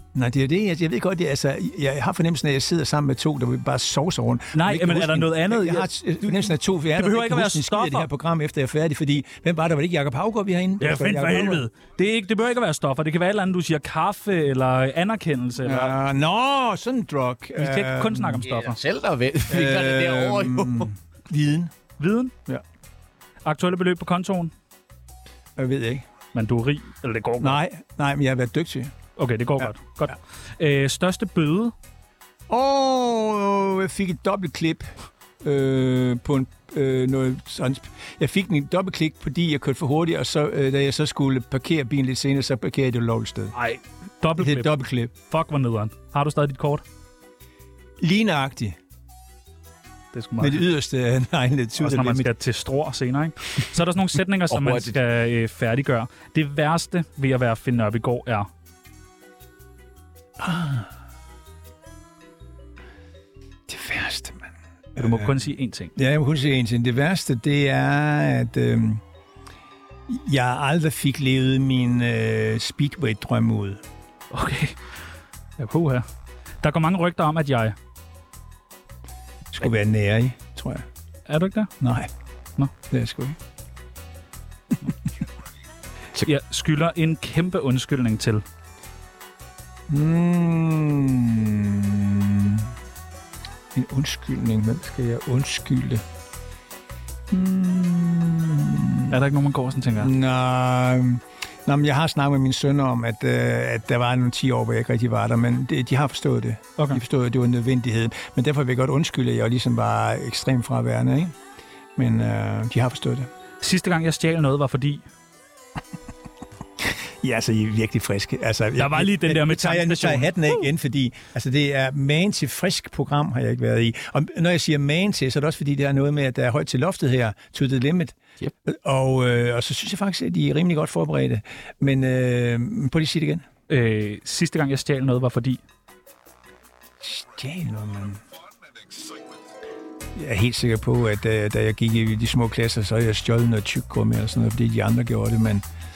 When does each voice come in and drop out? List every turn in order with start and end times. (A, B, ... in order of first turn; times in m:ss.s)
0:00.1-0:11.6 A
0:04.5-0:08.1 B
0:10.8-0:16.0 B
0:15.6-0:18.4 A
0:17.6-0:18.8 B
0:18.4-0:20.9 C
0:19.5-0:21.7 A
0:22.0-0:22.3 B
0:23.4-0:24.5 B
0:25.6-0:26.0 A
0:26.3-0:27.6 B
0:27.4-0:28.9 A
0:29.2-0:31.7 B
0:29.6-0:30.1 A
0:32.5-0:43.5 A
0:43.5-0:46.8 B
0:44.4-0:45.1 A
0:48.0-0:48.8 A
0:50.1-0:50.6 B
0:50.4-0:52.3 A
0:51.8-0:58.5 B
0:54.5-0:55.0 C
1:00.4-1:00.9 A
1:03.7-1:09.0 A
1:05.0-1:05.9 B
1:10.1-1:13.8 A
1:14.3-1:14.8 B
1:15.6-1:16.0 B
1:16.6-1:17.8 B
1:19.5-1:20.8 A
1:21.3-1:21.7 B
1:21.8-1:22.1 A
1:22.9-1:23.4 A
1:26.2-1:28.4 B
1:29.9-1:32.7 A
1:33.7-1:36.0 A
1:37.3-1:39.1 A
1:39.1-1:40.1 B
1:40.0-1:51.4 A
1:52.0-1:53.3 A
1:53.6-1:55.0 B
1:57.2-2:13.4 A
1:58.8-2:00.6 B
2:13.7-2:15.6 B
2:17.0-2:18.2 A
2:20.1-2:25.6 A